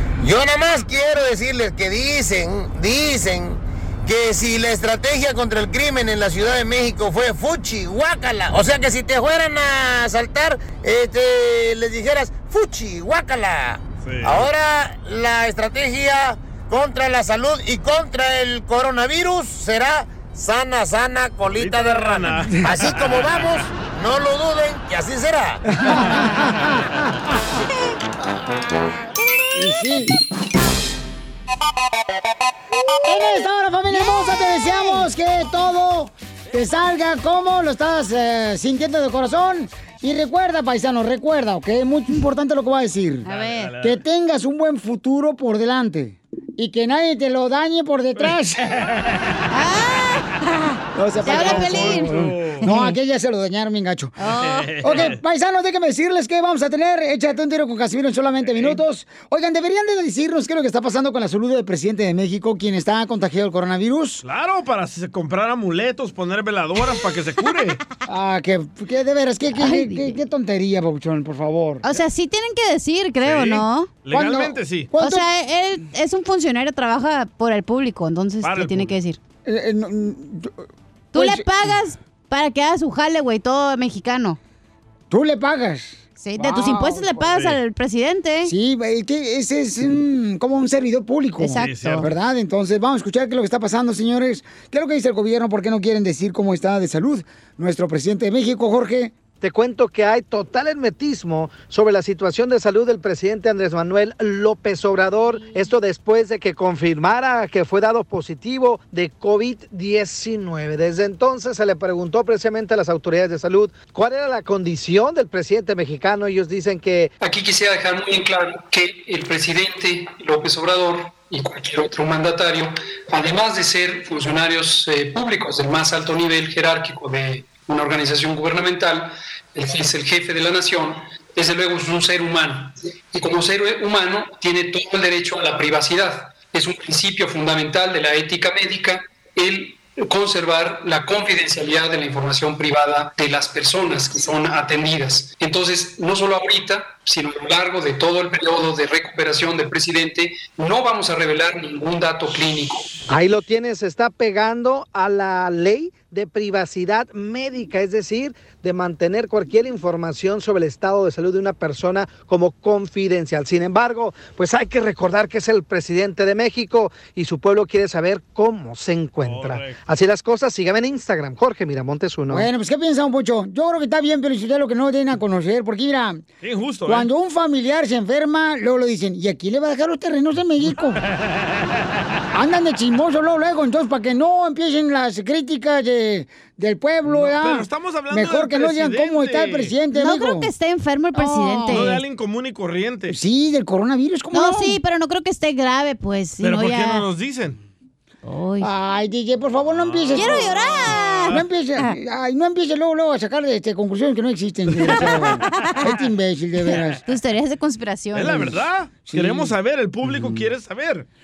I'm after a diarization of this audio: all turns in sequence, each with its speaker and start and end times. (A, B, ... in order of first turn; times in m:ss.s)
0:00.2-0:25.6 A
0:14.0-0:14.5 B
0:21.5-0:23.6 B
0:25.8-0:27.0 C
0:29.5-0:30.1 C
0:33.0-0:43.2 C
0:33.9-0:35.0 D
0:43.2-0:43.7 D
0:43.3-0:44.0 B
0:43.8-0:48.6 C
0:48.2-0:49.4 B
0:49.5-0:52.9 D
0:50.9-0:54.1 C
0:51.2-0:52.7 B
0:54.2-0:54.7 D
0:54.4-0:55.2 B
0:54.8-1:04.2 C
0:58.4-0:58.8 B
1:04.2-1:07.8 B
1:08.0-1:11.8 C
1:09.6-1:10.2 D
1:11.8-1:13.9 D
1:13.2-1:14.9 B
1:14.1-1:15.2 C
1:15.0-1:19.2 D
1:18.4-1:18.9 B
1:19.4-1:20.6 C
1:21.1-1:24.4 D
1:21.1-1:21.5 C
1:25.1-1:27.2 C
1:26.2-1:28.5 D
1:27.3-1:27.6 B
1:28.4-1:39.1 C
1:31.4-1:32.1 D
1:31.6-1:32.0 B
1:39.4-1:57.1 E
1:57.2-2:32.9 F
2:33.1-2:52.5 E
2:49.2-2:49.8 B
2:52.3-2:56.2 C
2:56.4-2:57.1 B
2:56.8-3:01.0 C
3:02.3-3:10.5 C
3:07.1-3:09.7 B
3:09.9-3:12.0 D
3:11.1-3:11.9 C
3:11.7-3:13.2 B
3:13.1-3:14.8 C
3:14.3-3:17.0 D
3:16.4-3:17.6 B
3:18.2-3:18.7 D
3:18.6-3:20.6 C
3:19.7-3:21.3 B
3:20.1-3:21.9 D
3:21.3-3:27.0 C
3:24.9-3:25.8 D
3:27.0-3:28.5 D
3:28.1-3:31.0 B
3:29.0-3:29.5 C
3:30.1-3:30.4 C